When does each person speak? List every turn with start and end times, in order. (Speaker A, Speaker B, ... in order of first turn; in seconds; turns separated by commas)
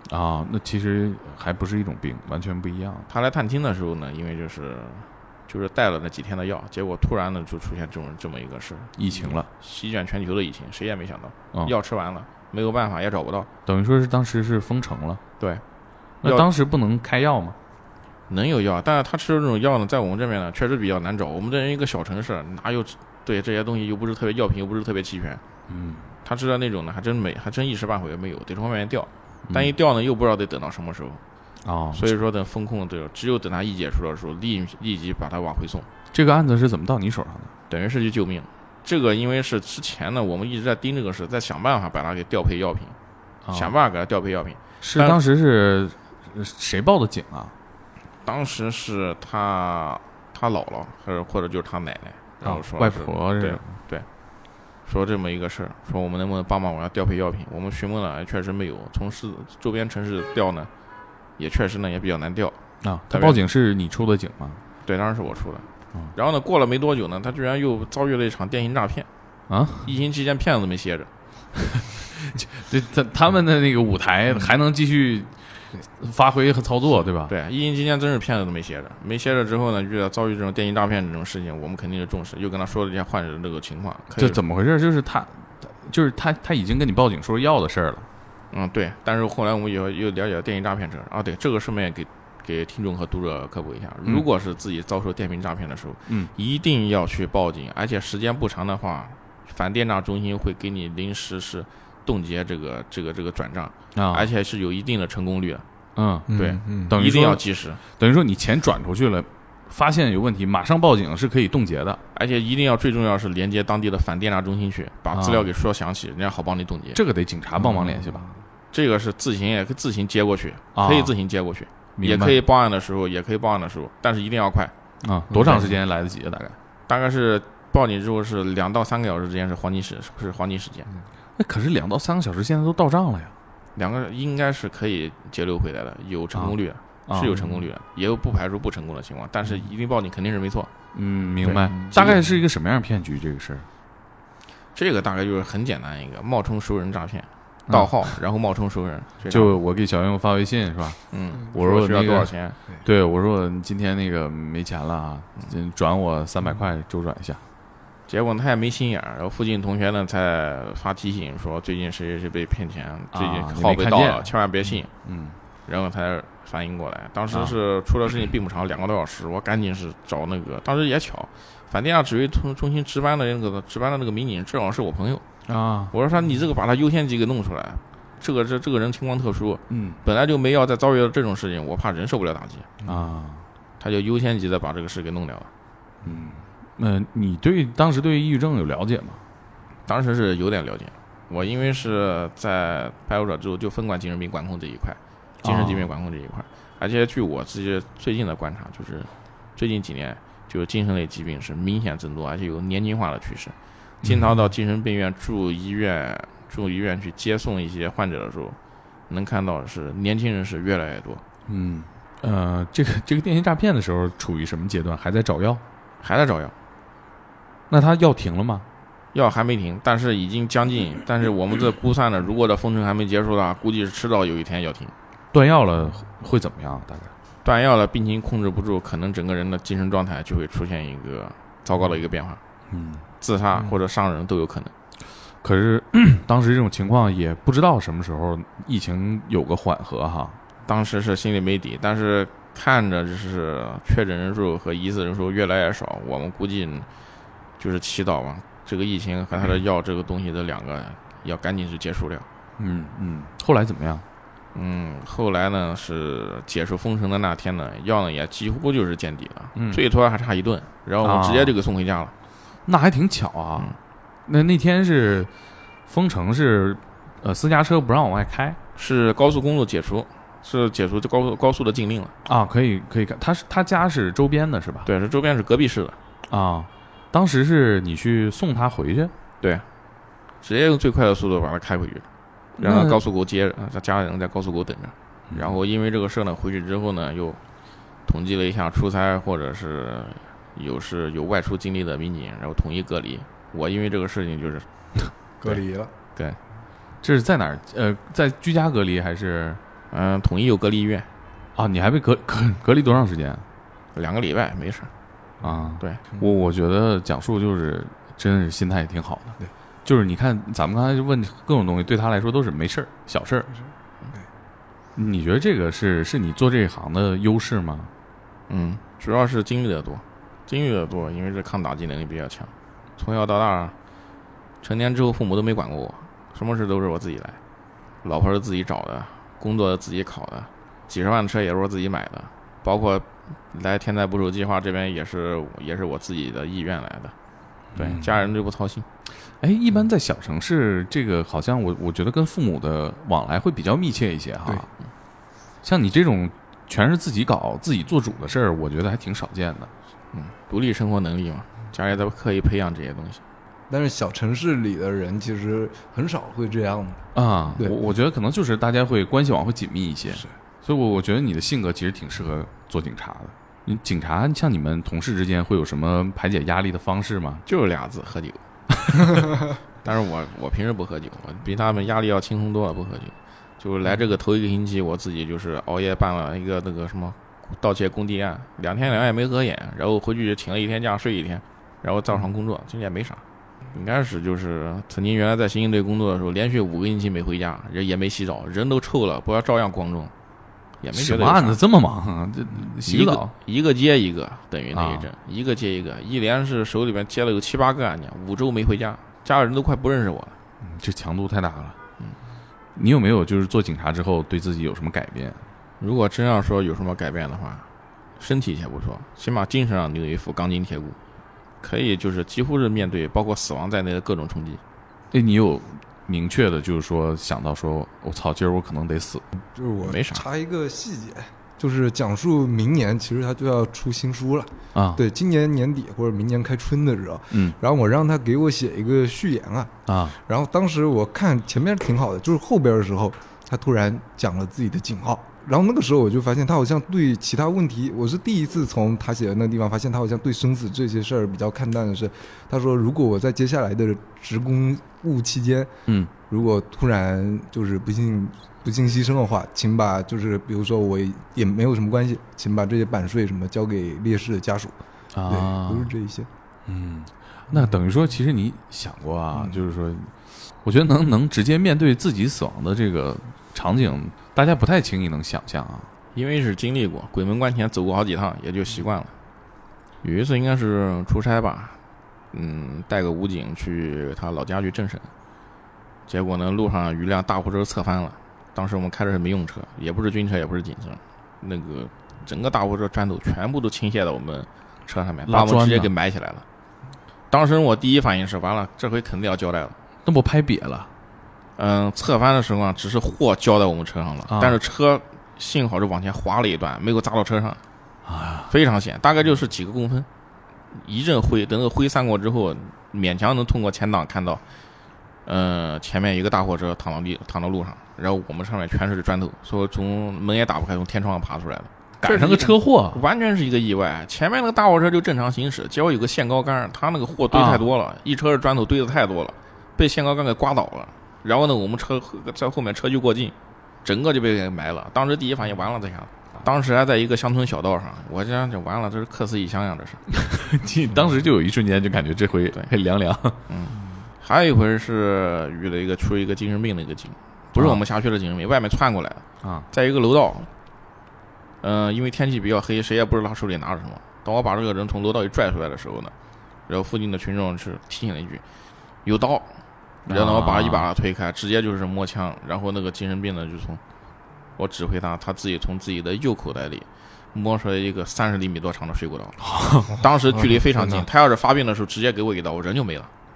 Speaker A: 0.1-3.1, Speaker B: 3.1-13.5, Speaker A: 9.0-9.5, Speaker A: 13.7-15.2, Speaker A: 16.2-17.6, Speaker B: 16.2-16.5, Speaker B: 18.3-25.4, Speaker A: 25.7-26.1, Speaker B: 26.2-31.2, Speaker A: 29.5-29.7, Speaker A: 31.6-32.0, Speaker B: 31.9-35.9, Speaker A: 36.1-37.5, Speaker B: 37.7-43.0, Speaker A: 43.4-43.7, Speaker B: 43.5-45.2, Speaker A: 44.8-47.5, Speaker B: 48.2-60.7, Speaker A: 52.4-53.7, Speaker B: 61.4-63.4, Speaker A: 62.8-64.6, Speaker B: 64.8-69.1, Speaker A: 69.5-69.9, Speaker B: 69.8-71.1, Speaker A: 71.8-77.3, Speaker B: 77.3-84.4, Speaker A: 84.2-88.1, Speaker B: 88.5-105.6, Speaker A: 103.9-104.3, Speaker A: 106.0-106.3, Speaker C: 106.3-106.9, Speaker B: 106.3-107.8, Speaker A: 106.9-112.0, Speaker B: 112.1-117.0, Speaker A: 115.1-115.5, Speaker A: 116.9-118.2, Speaker C: 117.5-118.4, Speaker B: 118.7-124.7, Speaker A: 120.7-121.1, Speaker A: 122.0-122.4, Speaker A: 125.0-126.6, Speaker C: 125.3-125.8, Speaker B: 126.9-130.9, Speaker A: 131.4-133.3, Speaker B: 133.8-140.7, Speaker A: 137.1-137.4, Speaker A: 140.9-143.7, Speaker C: 141.4-142.2, Speaker B: 144.7-149.6, Speaker A: 147.7-147.9, Speaker A: 149.3-151.0, Speaker B: 151.1-152.6, Speaker A: 151.5-157.4, Speaker B: 158.1-164.9, Speaker A: 163.1-164.3, Speaker A: 165.0-165.4, Speaker B: 165.7-175.2, Speaker A: 175.4-175.9, Speaker B: 175.9-182.7, Speaker A: 179.7-180.0, Speaker A: 182.8-183.4, Speaker B: 183.8-185.5, Speaker A: 186.0-189.2, Speaker B: 189.9-208.6, Speaker A: 195.4-195.9, Speaker B: 209.1-211.2, Speaker A: 211.4-215.6, Speaker B: 216.0-216.5, Speaker A: 217.7-218.7, Speaker B: 219.1-224.9, Speaker A: 225.3-227.1, Speaker B: 227.4-232.4, Speaker A: 232.7-233.0, Speaker B: 233.2-234.7, Speaker A: 235.4-240.4, Speaker B: 240.7-246.9, Speaker B: 247.6-252.3, Speaker A: 252.6-254.0, Speaker B: 254.5-262.1, Speaker A: 259.5-259.8, Speaker A: 261.0-261.5, Speaker A: 262.6-263.7, Speaker A: 264.2-265.3, Speaker A: 265.9-268.6, Speaker B: 268.8-272.1, Speaker A: 272.2-274.9, Speaker B: 274.8-276.0, Speaker A: 276.3-279.1, Speaker B: 280.4-282.1, Speaker A: 282.6-283.0, Speaker B: 282.6-287.4, Speaker A: 285.3-285.6, Speaker B: 288.0-294.7, Speaker C: 295.4-295.9, Speaker B: 296.1-296.4, Speaker A: 297.0-299.6, Speaker B: 299.9-301.1, Speaker A: 301.5-303.4, Speaker B: 303.9-304.9, Speaker A: 305.4-313.5, Speaker A: 314.9-317.9, Speaker B: 318.5-323.7, Speaker B: 324.6-327.4, Speaker B: 328.0-337.1, Speaker A: 337.7-338.1, Speaker B: 337.7-338.9, Speaker A: 339.4-344.7, Speaker A: 345.6-349.7, Speaker B: 350.1-353.2, Speaker C: 353.7-357.8, Speaker A: 357.1-367.4, Speaker B: 367.4-368.4, Speaker B: 369.8-390.1, Speaker B: 390.8-391.6, Speaker A: 390.9-393.3, Speaker B: 392.8-400.4, Speaker A: 394.7-395.1, Speaker A: 400.6-401.8, Speaker A: 402.7-405.4, Speaker B: 405.8-411.0, Speaker B: 411.6-414.6, Speaker A: 415.1-419.2, Speaker C: 419.3-445.7, Speaker B: 419.8-420.2, Speaker A: 424.7-425.0, Speaker A: 427.3-427.6, Speaker A: 429.9-430.2, Speaker C: 446.3-454.8, Speaker A: 455.1-455.9, Speaker C: 455.3-456.3, Speaker A: 456.6-465.9, Speaker C: 459.3-459.6, Speaker B: 466.1-469.1, Speaker B: 470.0-471.8, Speaker B: 472.3-475.1, Speaker B: 476.1-486.4, Speaker A: 485.2-485.9, Speaker B: 487.3-489.8, Speaker A: 490.0-490.9, Speaker B: 491.6-497.6, Speaker A: 494.3-494.6, Speaker A: 498.0-498.5, Speaker B: 498.5-500.1, Speaker B: 500.7-504.4, Speaker B: 505.2-530.0, Speaker A: 512.0-513.0, Speaker A: 517.3-517.6, Speaker A: 530.2-533.4, Speaker C: 530.9-531.2, Speaker B: 533.5-540.5, Speaker C: 533.7-534.1, Speaker A: 539.4-539.7, Speaker B: 541.6-546.1, Speaker B: 546.7-548.4, Speaker B: 549.0-549.6, Speaker A: 550.0-550.9, Speaker B: 550.1-553.8, Speaker B: 554.6-559.4, Speaker A: 559.4-559.9, Speaker B: 560.0-563.1, Speaker C: 560.3-561.1